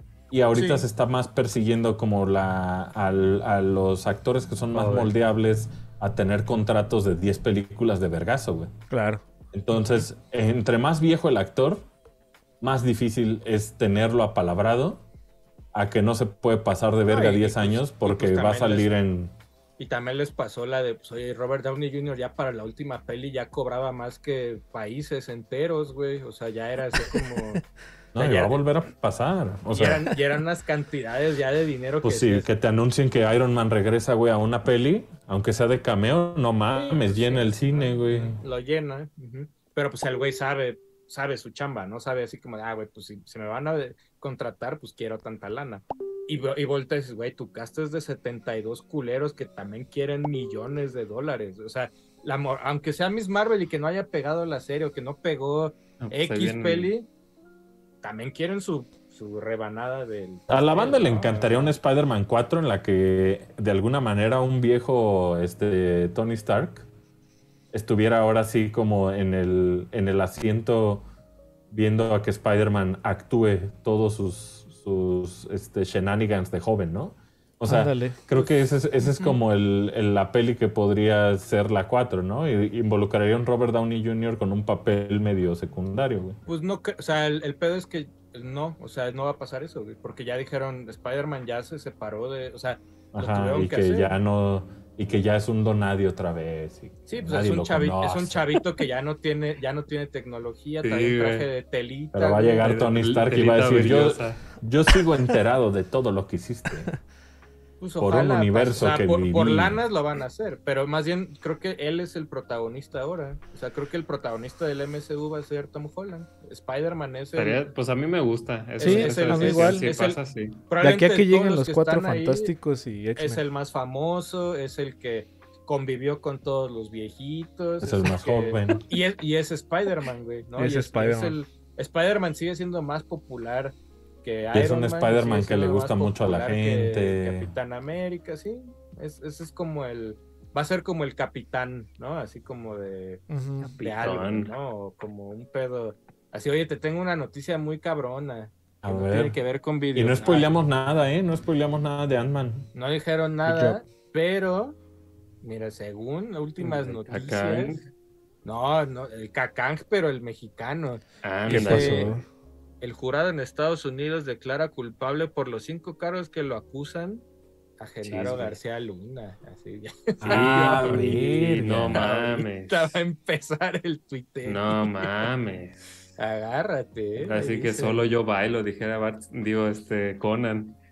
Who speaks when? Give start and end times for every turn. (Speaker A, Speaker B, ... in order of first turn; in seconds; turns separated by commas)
Speaker A: 0.3-8.7, Speaker B: 0.5-0.8, Speaker C: 4.7-5.1, Speaker D: 8.9-9.2, Speaker A: 9.5-11.8, Speaker A: 12.6-15.0, Speaker A: 15.7-19.3, Speaker B: 17.1-18.9, Speaker B: 19.8-27.6, Speaker A: 28.1-30.1, Speaker B: 28.1-28.6, Speaker B: 29.7-32.5, Speaker A: 32.0-38.4, Speaker B: 36.7-57.1, Speaker C: 56.0-56.9, Speaker B: 58.0-61.7, Speaker A: 60.5-66.9, Speaker A: 67.7-71.0, Speaker A: 71.7-86.4, Speaker D: 77.7-78.2, Speaker B: 79.0-79.4, Speaker B: 86.5-94.1, Speaker A: 93.1-98.5, Speaker B: 97.1-102.7, Speaker C: 100.8-101.5, Speaker A: 102.1-106.9, Speaker C: 102.6-104.4, Speaker B: 107.8-117.7, Speaker A: 108.0-109.8, Speaker C: 117.3-120.6, Speaker B: 118.8-122.5, Speaker D: 118.8-119.9, Speaker D: 120.8-123.4, Speaker B: 123.2-143.2, Speaker A: 127.8-128.8, Speaker D: 130.6-131.4, Speaker A: 134.5-137.5, Speaker D: 143.3-143.7, Speaker C: 143.6-144.5, Speaker B: 143.8-150.5, Speaker A: 148.8-149.4, Speaker A: 149.9-152.7, Speaker B: 152.7-154.8, Speaker D: 153.4-153.8, Speaker B: 155.4-157.8, Speaker C: 156.6-157.9, Speaker B: 158.4-162.1, Speaker C: 161.2-162.2, Speaker D: 161.5-162.2, Speaker B: 162.8-167.2, Speaker B: 167.8-171.2, Speaker C: 168.0-168.6, Speaker A: 170.2-172.1, Speaker C: 170.2-173.0, Speaker B: 171.9-175.3, Speaker C: 174.4-175.8, Speaker B: 176.2-178.1, Speaker C: 177.2-180.8